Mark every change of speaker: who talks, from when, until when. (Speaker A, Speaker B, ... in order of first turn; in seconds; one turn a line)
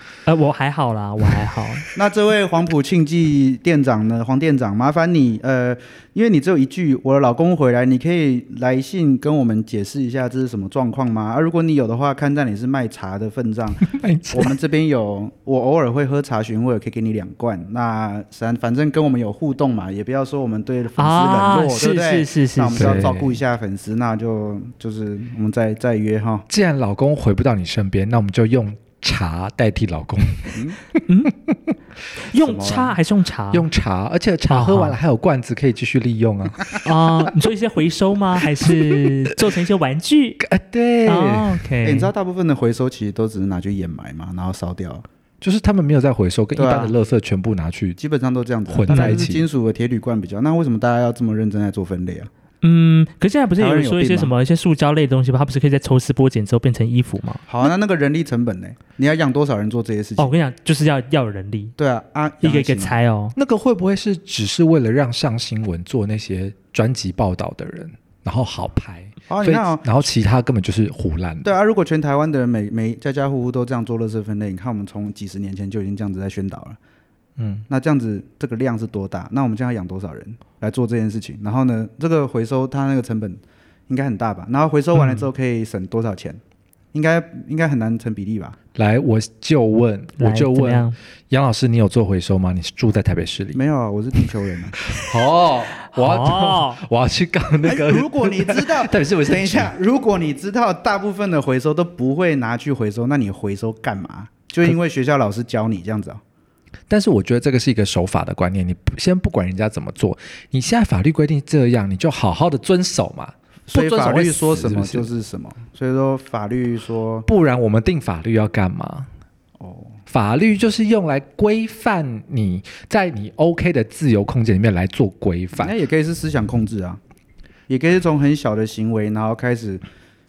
Speaker A: 0.2-1.8
Speaker B: 1.9-26.4
Speaker C: 13.9-14.6
Speaker A: 21.0-23.1
Speaker C: 22.7-23.4
Speaker C: 26.5-30.6
Speaker A: 31.1-31.3
Speaker C: 31.5-31.7
Speaker A: 32.3-33.7
Speaker B: 32.3-33.0
Speaker C: 33.5-36.7
Speaker A: 34.5-35.0
Speaker A: 36.8-40.4
Speaker C: 38.5-39.0
Speaker C: 40.4-41.6
Speaker A: 41.0-42.1
Speaker B: 41.8-45.0
Speaker C: 45.4-48.0
Speaker B: 46.5-46.9
Speaker B: 48.0-52.3
Speaker C: 48.7-49.4
Speaker A: 48.9-49.2
Speaker A: 52.6-57.4
Speaker B: 53.6-54.3
Speaker B: 57.5-60.3
Speaker A: 60.2-61.7
Speaker B: 61.8-63.0
Speaker A: 62.4-63.3
Speaker C: 63.4-71.5
Speaker B: 69.3-69.9
Speaker B: 71.4-76.8
Speaker C: 77.4-77.6
Speaker B: 77.7-86.4
Speaker B: 86.9-88.6
Speaker C: 88.7-93.6
Speaker A: 90.2-91.0
Speaker B: 93.5-94.8
Speaker C: 94.9-99.7
Speaker A: 95.8-96.8
Speaker B: 97.6-106.2
Speaker C: 106.9-115.1
Speaker B: 113.7-117.3
Speaker C: 117.2-119.1
Speaker B: 119.6-120.0
Speaker C: 120.1-125.8
Speaker B: 125.5-127.0
Speaker B: 127.7-129.8